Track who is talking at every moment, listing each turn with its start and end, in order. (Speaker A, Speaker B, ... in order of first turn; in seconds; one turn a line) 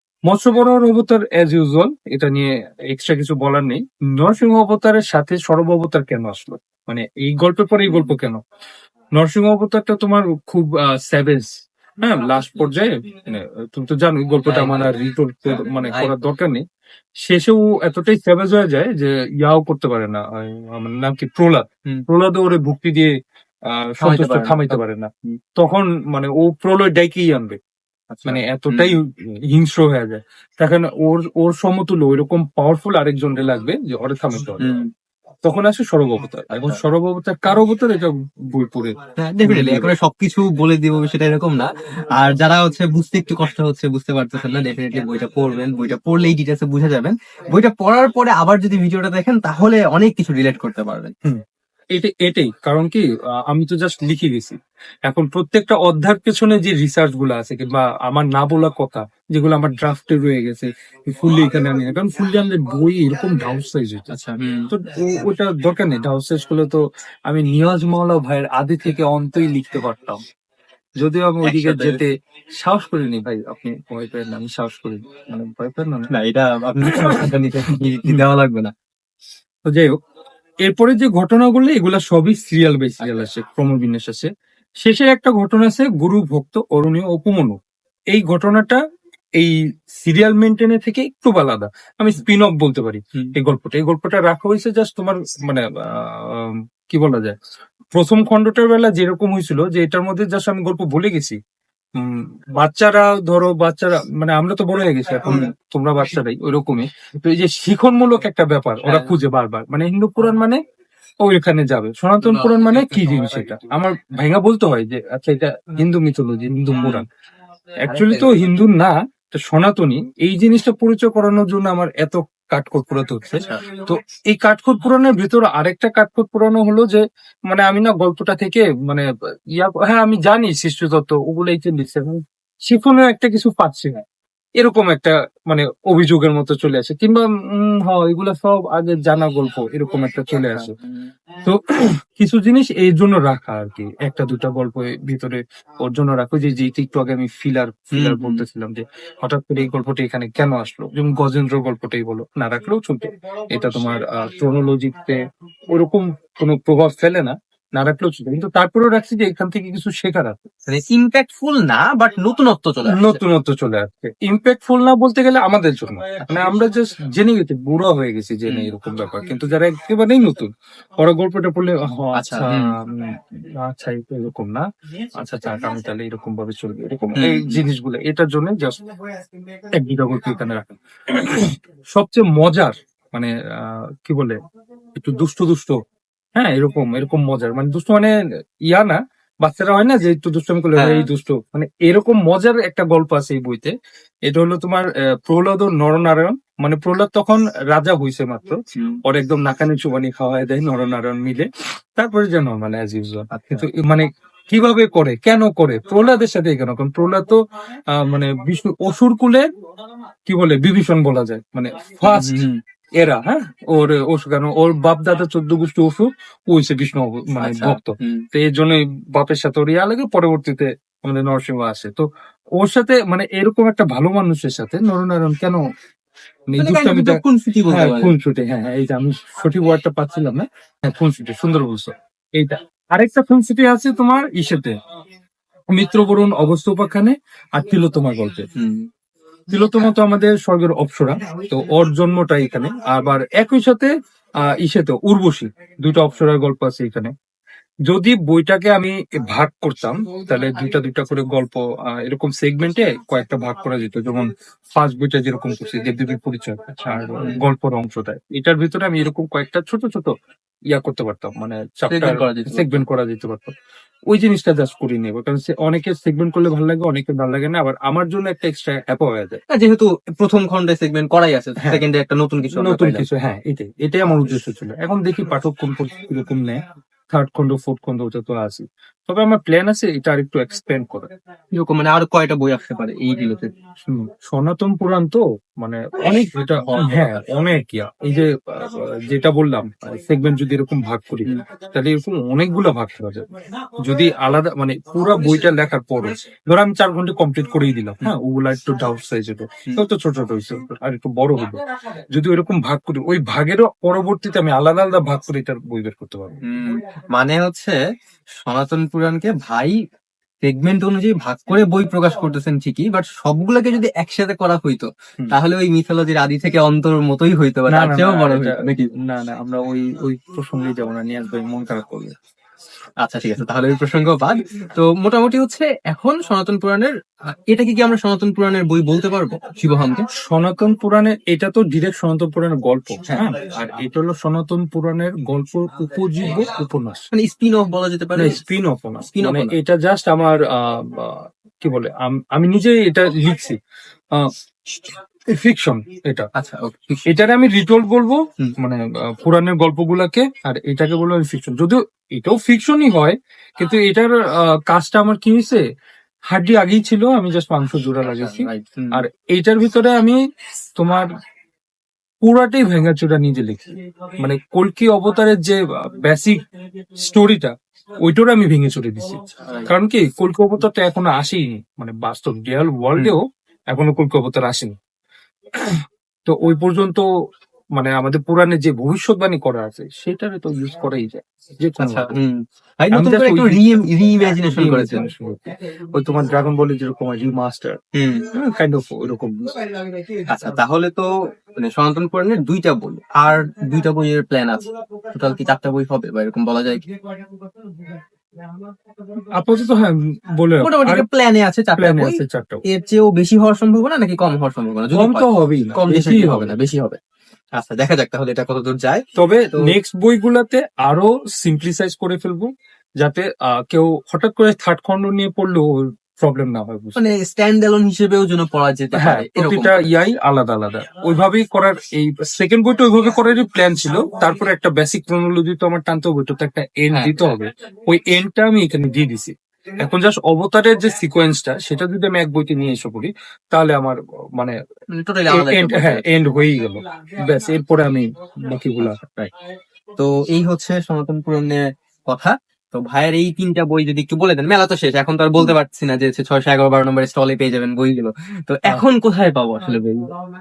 Speaker A: 0.3-8.4
Speaker A: 9.2-11.5
Speaker A: 12.0-16.6
Speaker B: 14.5-14.9
Speaker B: 15.5-16.1
Speaker A: 17.2-23.1
Speaker A: 23.7-27.6
Speaker B: 24.0-24.8
Speaker B: 28.1-28.9
Speaker A: 28.3-34.7
Speaker B: 34.6-34.9
Speaker A: 35.4-39.9
Speaker B: 39.2-51.1
Speaker A: 52.0-54.6
Speaker A: 55.1-64.2
Speaker B: 64.1-64.7
Speaker A: 64.7-70.2
Speaker A: 71.0-76.1
Speaker B: 71.4-72.0
Speaker B: 76.1-78.7
Speaker A: 76.9-77.3
Speaker A: 79.7-80.0
Speaker A: 80.7-84.3
Speaker B: 83.0-83.3
Speaker A: 84.8-87.6
Speaker A: 88.1-88.8
Speaker A: 89.4-97.4
Speaker A: 97.9-101.4
Speaker A: 102.0-110.6
Speaker B: 108.8-109.1
Speaker A: 111.2-117.1
Speaker B: 112.2-113.6
Speaker B: 116.8-117.0
Speaker A: 117.8-134.0
Speaker B: 117.8-118.4
Speaker A: 134.6-140.7
Speaker B: 140.4-140.8
Speaker A: 141.4-155.2
Speaker B: 147.9-148.4
Speaker A: 155.7-160.5
Speaker B: 160.7-163.2
Speaker A: 162.9-174.7
Speaker B: 172.2-172.8
Speaker A: 175.2-178.8
Speaker B: 177.2-177.6
Speaker A: 179.7-184.4
Speaker A: 184.9-185.8
Speaker A: 186.4-188.2
Speaker A: 188.7-193.7
Speaker B: 190.8-191.1
Speaker A: 194.3-207.4
Speaker B: 198.8-199.0
Speaker B: 203.3-203.7
Speaker A: 207.9-209.5
Speaker A: 210.3-212.5
Speaker B: 212.1-212.6
Speaker A: 213.0-222.1
Speaker B: 217.4-218.2
Speaker A: 222.6-225.6
Speaker A: 226.5-234.8
Speaker B: 226.6-228.1
Speaker A: 235.7-238.5
Speaker B: 238.6-238.9
Speaker A: 239.5-247.1
Speaker A: 247.9-260.1
Speaker B: 256.9-257.4
Speaker A: 260.7-263.5
Speaker B: 261.9-262.8
Speaker A: 264.1-269.4
Speaker B: 269.5-273.0
Speaker A: 272.5-281.1
Speaker B: 281.5-283.5
Speaker A: 283.9-301.6
Speaker B: 286.5-287.1
Speaker A: 302.1-306.4
Speaker B: 306.4-307.8
Speaker B: 308.4-309.8
Speaker B: 310.4-318.9
Speaker A: 317.7-322.1
Speaker B: 323.0-330.1
Speaker A: 330.3-337.1
Speaker B: 337.1-338.4
Speaker A: 338.2-343.6
Speaker B: 339.1-339.5
Speaker A: 344.1-346.3
Speaker B: 346.4-347.0
Speaker A: 347.1-355.6
Speaker A: 356.3-360.2
Speaker B: 358.2-359.0
Speaker A: 360.8-361.1
Speaker A: 362.2-366.4
Speaker A: 367.0-374.7
Speaker B: 369.4-369.7
Speaker A: 375.6-377.1
Speaker A: 377.8-382.1
Speaker B: 381.8-385.0
Speaker A: 382.9-387.8
Speaker B: 387.9-388.3
Speaker A: 388.3-389.7
Speaker B: 390.3-396.9
Speaker A: 399.3-401.1
Speaker B: 400.6-407.0
Speaker A: 401.8-402.6
Speaker A: 404.9-406.6
Speaker B: 407.6-409.0
Speaker A: 409.1-417.0
Speaker B: 417.0-419.9
Speaker A: 418.9-434.6
Speaker B: 426.9-427.4
Speaker B: 434.9-436.0
Speaker A: 435.3-439.0
Speaker B: 438.8-439.3
Speaker B: 440.0-450.1